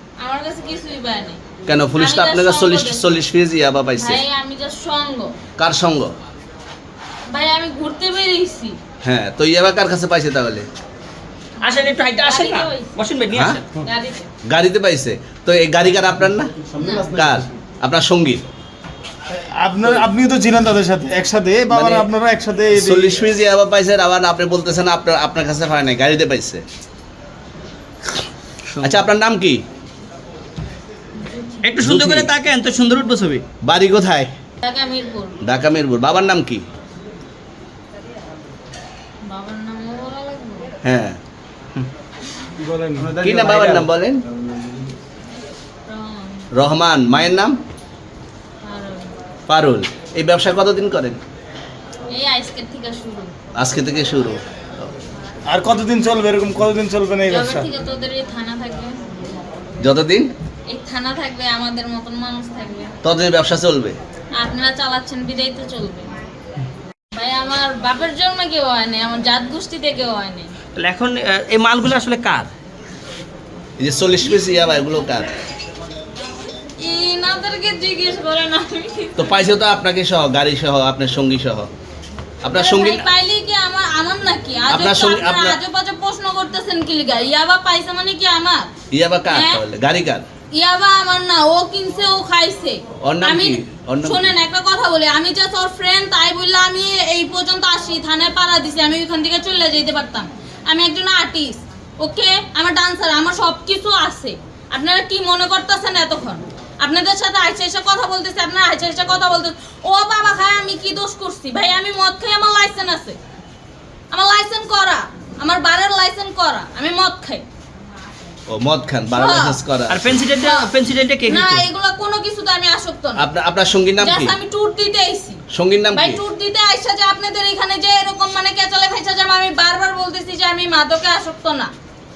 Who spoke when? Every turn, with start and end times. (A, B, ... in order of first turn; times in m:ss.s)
0:00.2-0:01.4 A
0:01.6-0:04.2 B
0:02.0-0:03.2 A
0:03.9-0:05.3 A
0:05.6-0:06.1 B
0:07.3-0:08.8 A
0:09.0-0:10.7 B
0:11.6-0:13.6 C
0:12.2-0:13.0 A
0:13.3-0:13.6 B
0:13.8-0:14.3 A
0:14.5-0:18.4 B
0:16.8-0:17.1 A
0:19.3-0:23.1 D
0:21.7-0:22.1 B
0:22.7-0:26.6 B
0:28.7-0:29.0 C
0:28.8-0:29.6 B
0:31.2-0:31.7 A
0:31.6-0:33.4 C
0:31.8-0:32.3 B
0:33.6-0:34.3 B
0:34.6-0:35.4 A
0:35.4-0:36.6 B
0:39.3-0:40.7 A
0:40.8-0:41.2 B
0:42.6-0:43.1 D
0:43.0-0:43.9 C
0:43.2-0:44.2 B
0:45.9-0:46.5 A
0:46.5-0:47.6 B
0:48.6-0:49.1 A
0:49.5-0:51.2 B
0:52.1-0:53.3 A
0:53.5-0:54.4 B
0:55.5-0:57.7 D
0:57.3-0:59.0 A
0:59.8-1:00.3 B
1:00.7-1:02.9 A
1:03.0-1:04.0 B
1:04.4-1:06.1 A
1:07.1-1:10.5 A
1:10.8-1:12.5 C
1:13.8-1:15.3 B
1:16.8-1:19.4 A
1:19.2-1:21.7 B
1:22.4-1:23.1 B
1:22.5-1:28.7 A
1:24.7-1:25.6 B
1:28.9-1:30.2 B
1:29.3-1:29.6 A
1:30.5-1:53.2 A
1:33.0-1:34.3 B
1:54.1-1:57.4 A
1:58.5-2:00.0 B
1:59.1-1:59.6 A
1:59.9-2:01.6 C
2:00.3-2:00.7 A
2:01.3-2:03.2 A
2:03.2-2:04.4 B
2:04.0-2:05.4 A
2:05.5-2:06.2 B
2:05.9-2:11.7 A